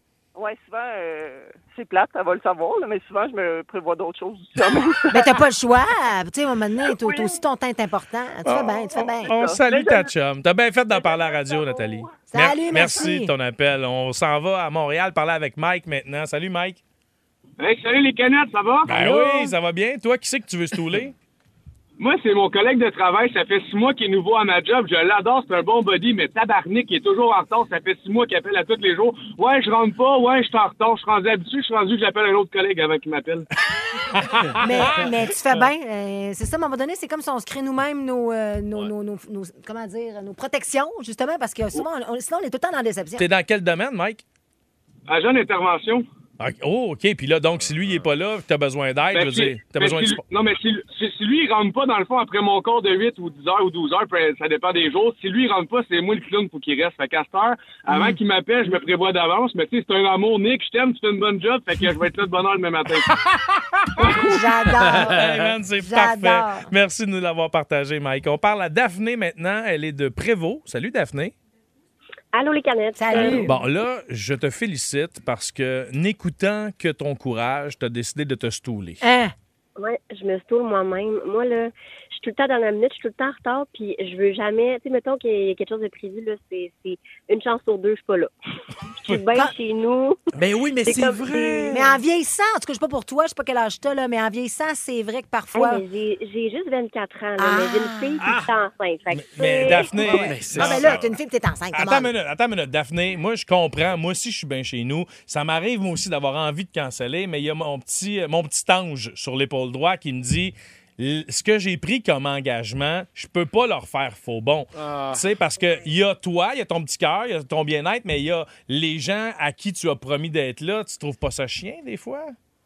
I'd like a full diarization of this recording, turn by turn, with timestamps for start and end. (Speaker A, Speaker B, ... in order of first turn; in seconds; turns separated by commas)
Speaker A: 0.3-5.4, Speaker B: 5.1-9.3, Speaker A: 6.8-7.4, Speaker C: 8.4-16.8, Speaker A: 9.2-10.1, Speaker A: 10.9-12.0, Speaker B: 12.3-13.3, Speaker D: 17.6-18.9, Speaker C: 18.9-21.1, Speaker B: 18.9-19.4, Speaker D: 22.0-33.4, Speaker C: 34.1-34.5, Speaker B: 34.6-43.2, Speaker C: 43.2-44.2, Speaker D: 45.1-46.0, Speaker C: 46.4-50.2, Speaker E: 47.6-48.1, Speaker D: 49.1-63.1, Speaker B: 57.9-58.1, Speaker E: 63.1-63.9, Speaker B: 64.0-65.3, Speaker E: 64.7-65.5, Speaker C: 65.0-71.3, Speaker B: 65.8-66.7, Speaker F: 72.3-73.6, Speaker B: 73.0-73.5, Speaker C: 73.4-79.0, Speaker B: 79.0-79.3, Speaker F: 79.8-88.3, Speaker F: 89.0-90.2, Speaker E: 90.3-91.9, Speaker F: 90.8-91.8, Speaker B: 91.7-95.8, Speaker F: 95.5-100.3, Speaker B: 97.4-98.2, Speaker E: 98.2-98.5, Speaker C: 99.2-101.0, Speaker E: 99.9-101.1, Speaker B: 100.5-102.1, Speaker C: 101.7-122.3, Speaker E: 114.7-115.2